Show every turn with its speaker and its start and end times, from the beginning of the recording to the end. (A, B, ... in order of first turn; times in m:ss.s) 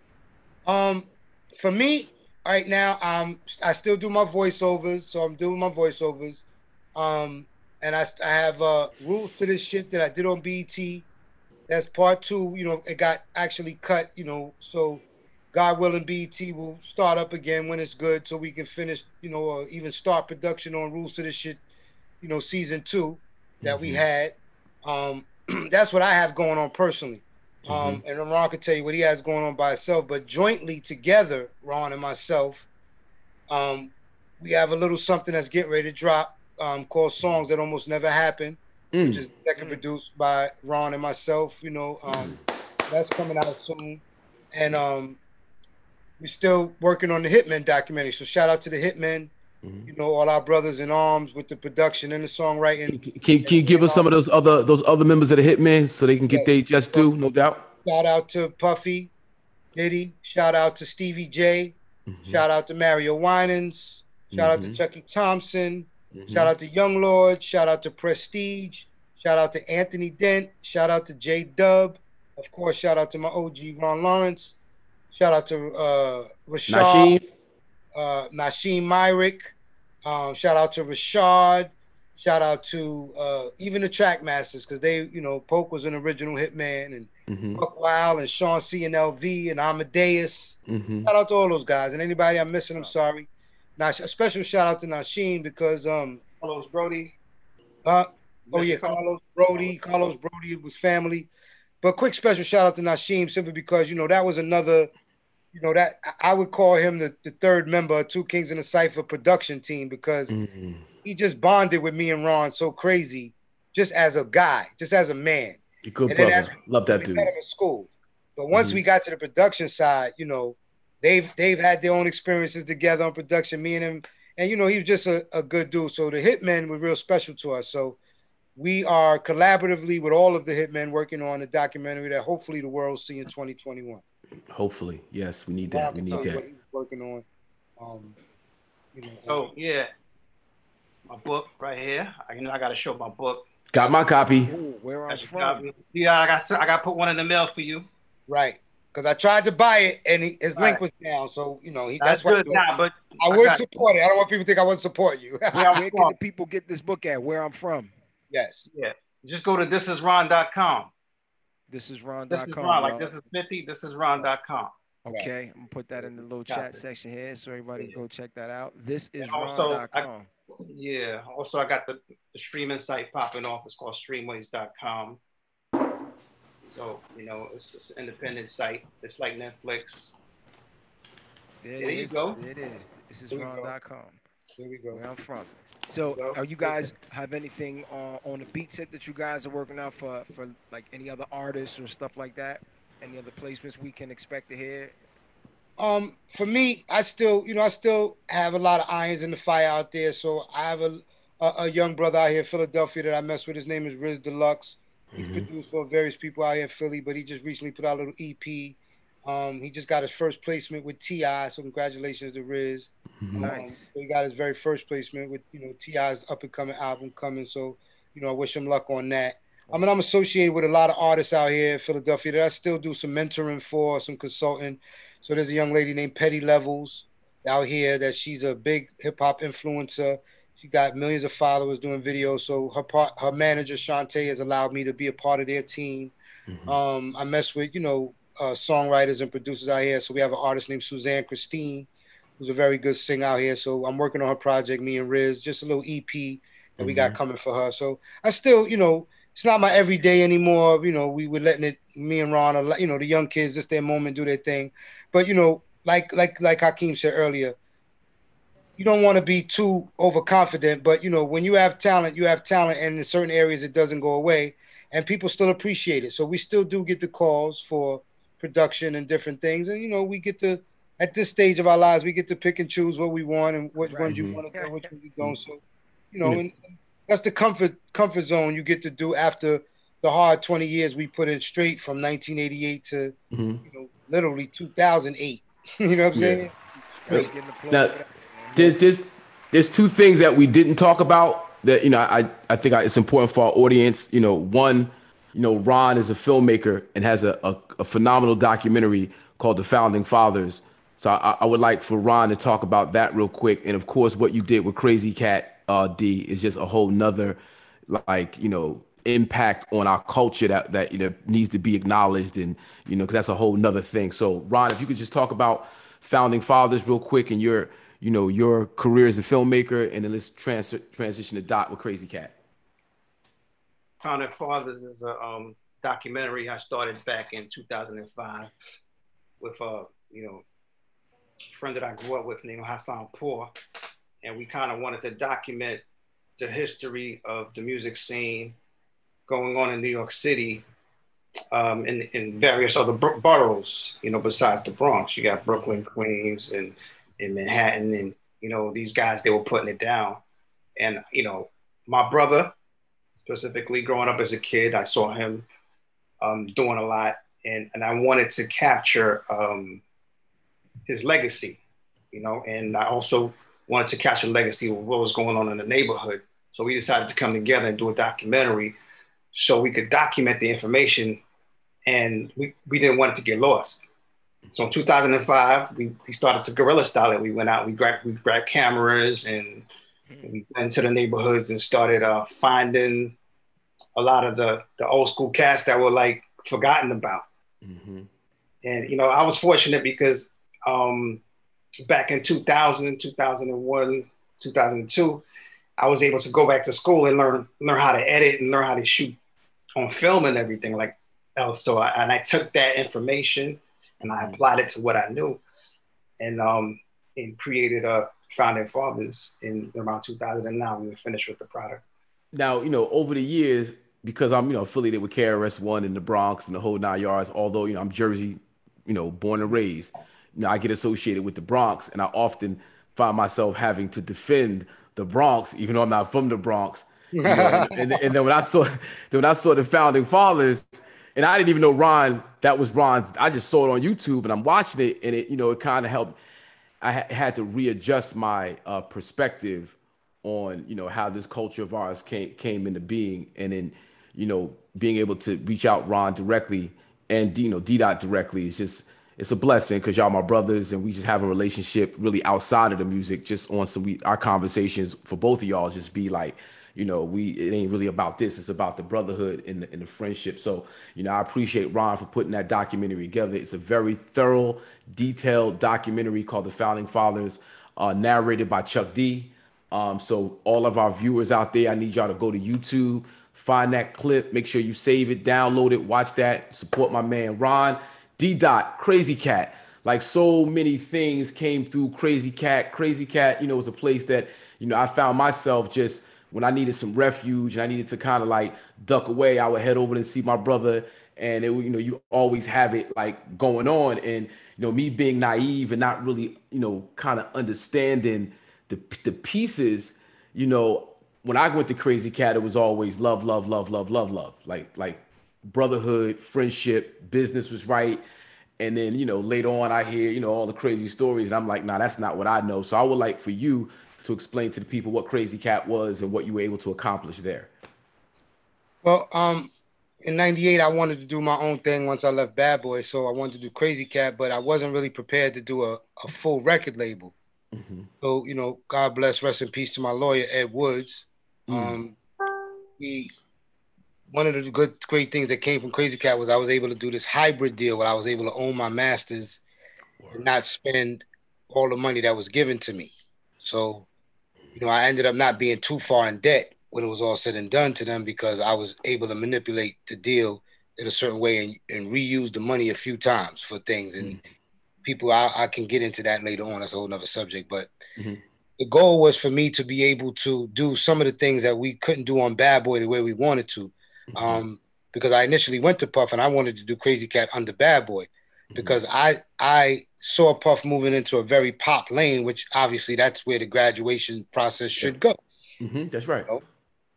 0:00.6-0:06.4 A
0:07.0-0:11.0 A
0:11.7-0:21.6 A
0:22.2-0:32.6 A
0:23.6-0:24.0 B
0:27.6-0:28.0 B
0:33.5-0:42.4 A
0:38.9-0:39.2 B
0:42.1-0:42.4 B
0:42.9-0:45.2 A
0:46.2-0:49.3 A
0:49.6-0:49.9 B
0:49.9-0:54.1 A
0:52.8-0:57.7 B
0:56.3-0:57.1 A
0:57.8-0:59.1 A
0:59.7-1:14.5 A
1:02.1-1:02.4 B
1:04.3-1:04.8 B
1:06.1-1:06.5 B
1:15.1-1:17.2 A
1:16.7-1:17.2 B
1:18.0-1:19.5 A
1:20.0-1:36.2 A
1:27.3-1:27.6 B
1:30.7-1:31.1 B
1:36.3-1:37.1 C
1:37.8-1:41.3 A
1:38.5-1:39.0 C
1:41.8-1:44.9 A
1:45.5-1:50.3 A
1:50.3-1:50.8 B
1:51.0-2:08.0 A
1:55.8-1:57.3 B
1:58.5-1:58.8 B
2:08.6-2:14.0 A
2:14.5-2:16.4 B
2:15.6-2:17.2 A
2:17.8-2:18.1 A
2:18.9-2:19.5 A
2:19.3-2:19.9 C
2:21.1-2:23.4 C
2:23.7-2:24.5 B
2:24.5-2:25.6 D
2:25.1-2:27.9 C
2:28.3-2:32.6 A
2:32.0-2:33.6 C
2:33.2-2:35.7 A
2:35.6-2:36.1 C
2:35.7-2:37.9 D
2:38.3-2:38.6 A
2:38.7-2:40.9 C
2:41.7-2:43.1 D
2:42.3-2:44.7 C
2:45.0-2:50.3 D
2:45.9-2:46.8 C
2:49.2-2:50.0 C
2:50.6-2:55.2 C
2:56.6-3:00.1 C
3:01.6-3:04.2 D
3:01.8-3:02.4 C
3:03.3-3:03.7 C
3:04.6-3:05.0 A
3:04.9-3:15.0 D
3:06.1-3:06.9 C
3:15.8-3:56.1 A
3:25.1-3:25.5 B
3:33.2-3:33.5 B
3:33.4-3:33.9 D
3:56.5-3:56.8 B
3:56.7-4:01.9 A
4:02.4-4:17.5 A
4:06.8-4:07.2 B
4:18.8-4:43.1 A
4:33.8-4:34.9 D
4:34.1-4:34.4 B
4:43.3-4:43.6 B
4:43.6-4:47.2 A
4:46.1-4:46.4 B
4:47.0-4:48.8 D
4:47.1-4:48.0 B
4:48.5-5:22.3 B
5:24.0-5:28.5 C
5:29.4-5:30.4 C
5:31.5-5:33.5 C
5:34.2-5:35.8 C
5:36.4-5:38.6 C
5:39.3-5:40.6 C
5:41.5-5:50.2 C
5:45.5-5:45.8 B
5:50.8-5:52.5 C
5:53.2-5:55.4 C
5:56.2-5:59.8 C
6:00.9-6:01.6 C
6:02.1-6:08.8 C
6:09.3-6:11.2 C
6:11.9-6:13.8 C
6:14.5-6:19.7 C
6:20.2-6:23.1 C
6:24.0-6:27.2 C
6:27.6-6:28.1 B
6:28.6-6:31.2 C
6:31.8-6:35.2 C
6:35.8-6:39.2 C
6:39.8-6:45.4 C
6:44.0-6:44.4 B
6:46.2-6:51.8 C
6:52.3-7:16.2 B
7:07.1-7:08.0 A
7:16.8-8:28.0 B
8:28.6-8:37.5 B
8:38.8-8:39.5 A
8:40.0-8:47.1 A
8:47.5-8:47.9 B
8:48.0-8:52.0 A
8:51.5-8:51.8 B
8:52.8-8:53.1 A
8:54.1-8:59.4 A
9:00.0-9:00.2 B
9:00.1-9:02.9 A
9:03.4-9:03.8 A
9:04.5-9:14.2 A
9:14.8-9:17.7 A
9:18.0-9:18.2 B
9:18.6-9:35.2 A
9:24.1-9:24.4 B
9:28.5-9:28.8 B
9:35.6-9:36.3 B